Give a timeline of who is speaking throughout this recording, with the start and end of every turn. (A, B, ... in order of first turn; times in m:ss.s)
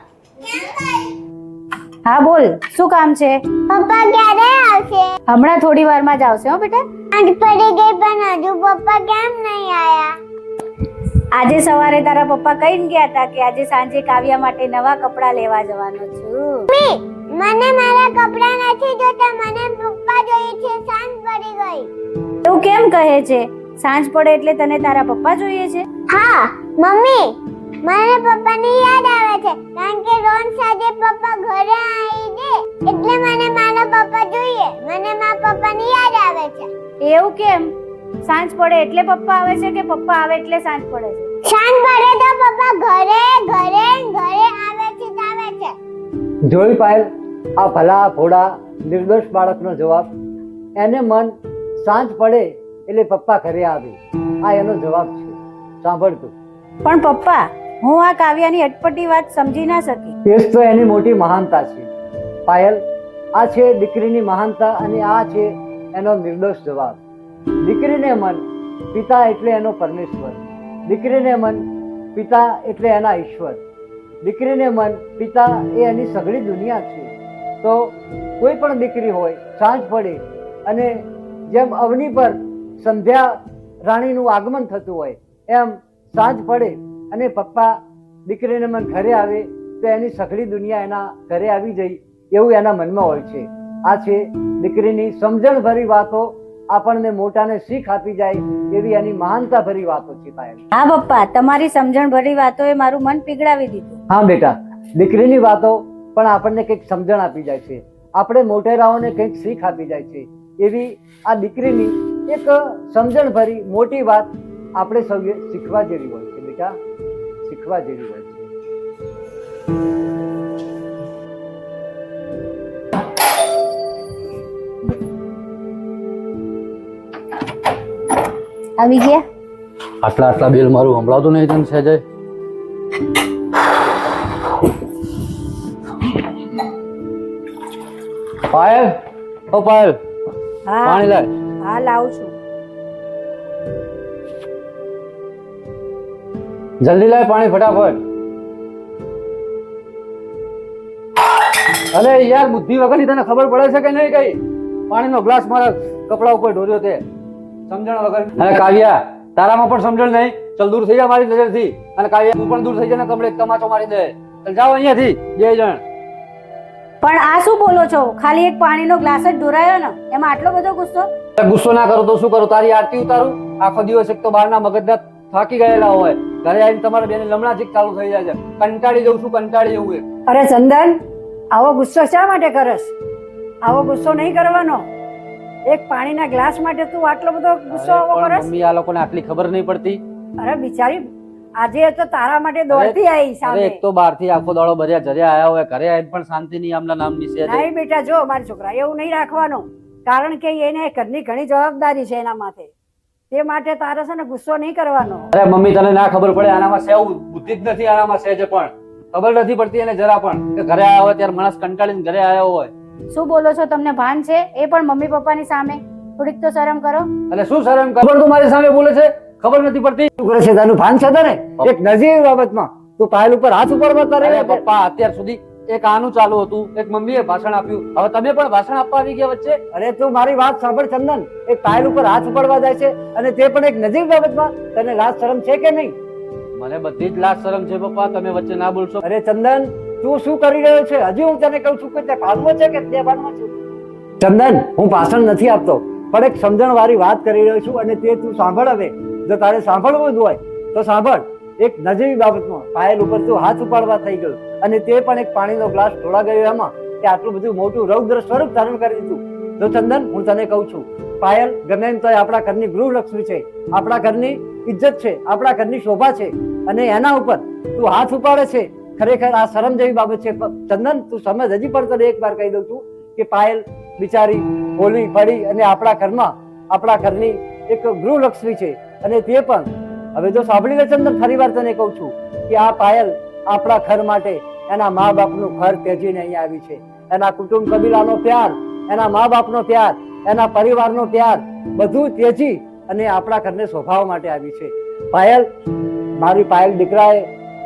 0:00.4-0:01.2 A
0:02.0-0:03.4 B
0:03.7-0:05.1 A
0:05.3-0:06.8 B
0:07.1-0:10.2 A
0:11.3-0:16.7 B
0:16.7-0:21.9 A
0:22.4-0:25.9 B
0:26.1-0:36.7 A
0:37.0-0:37.7 B
0:38.2-0:41.3 B
0:41.4-0:45.8 A
0:46.5-0:50.1 C
0:50.8-0:56.3 C
0:56.8-1:00.1 B
1:00.2-1:01.9 C
1:02.5-1:02.8 C
1:03.4-1:07.0 C
1:07.6-1:11.6 C
1:12.1-1:13.6 C
1:14.2-1:40.6 C
1:40.7-1:44.0 B
1:44.1-1:56.8 C
1:57.4-1:58.5 C
2:08.8-2:09.2 B
2:10.0-2:12.0 D
2:18.5-2:19.0 D
2:19.5-2:20.0 D
2:20.8-2:21.3 D
2:21.7-2:22.3 E
2:21.7-2:22.3 B
2:26.8-2:28.0 D
2:31.9-2:34.4 D
2:34.9-2:37.0 D
2:37.7-2:45.8 D
2:47.0-2:51.1 B
2:51.4-3:00.0 D
3:00.3-3:01.0 E
3:01.5-3:02.9 E
3:03.6-3:04.8 E
3:05.6-3:08.5 E
3:07.7-3:10.0 D
3:10.4-3:13.8 E
3:12.7-3:17.6 D
3:17.4-3:22.7 E
3:23.3-3:25.3 E
3:25.3-3:32.7 D
3:33.1-3:37.1 B
3:37.3-3:40.1 D
3:40.2-3:44.6 C
3:44.2-3:49.6 D
3:49.7-3:55.9 C
3:56.6-3:59.0 D
3:59.0-4:03.5 C
4:04.2-4:55.5 C
4:56.2-4:57.3 C